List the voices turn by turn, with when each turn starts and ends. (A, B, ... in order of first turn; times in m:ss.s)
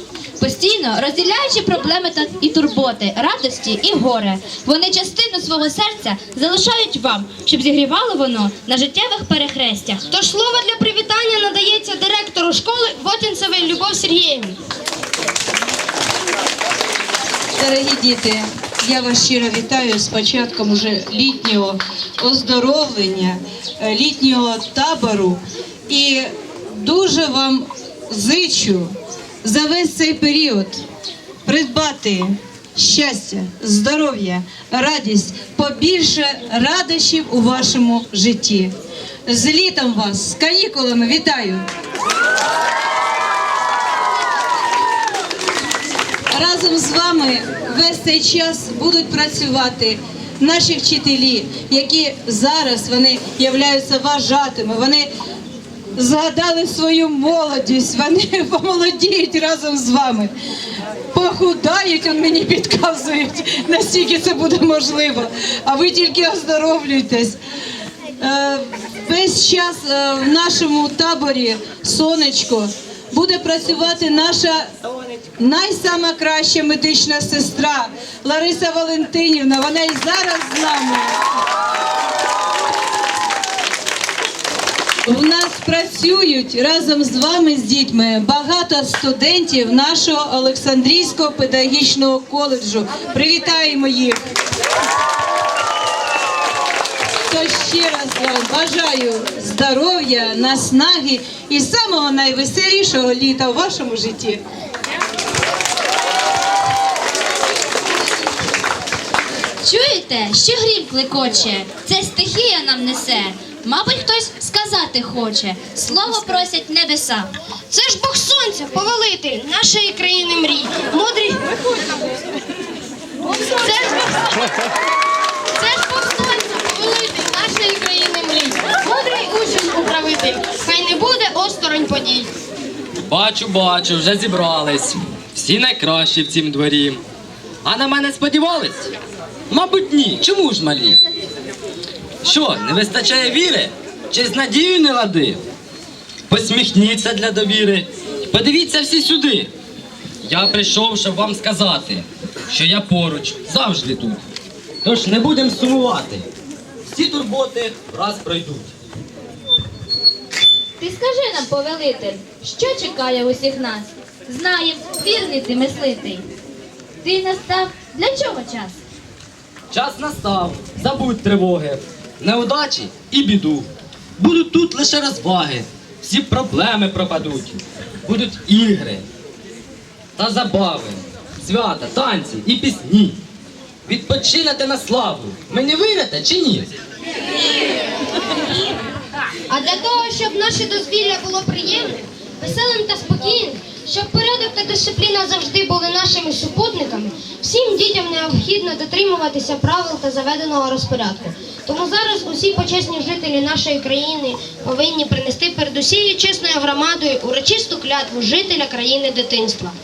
0:00.4-0:10.0 A
0:10.1-0:14.6 B
0:17.6-0:30.8 C
0:31.4-0:38.7 C
0:39.3-0:41.6 C
0:46.3-0:55.1 C
0:55.9-1:00.3 C
1:01.1-1:07.4 C
1:08.2-1:14.7 C
1:15.4-1:21.2 C
1:25.0-1:34.2 C
1:37.3-1:44.4 C
1:49.6-1:57.3 A
1:57.7-2:01.4 B
2:03.5-2:04.6 B
2:05.6-2:12.3 B
2:13.0-2:17.0 D
2:17.6-2:18.9 D
2:19.5-2:21.0 D
2:22.2-2:25.4 D
2:26.3-2:29.5 D
2:30.2-2:34.2 D
2:34.8-2:36.3 D
2:36.9-2:38.7 D
2:40.8-2:46.2 A
2:47.0-2:48.8 A
2:49.7-2:59.0 D
3:00.2-3:03.2 D
3:03.8-3:06.7 D
3:09.5-3:29.8 B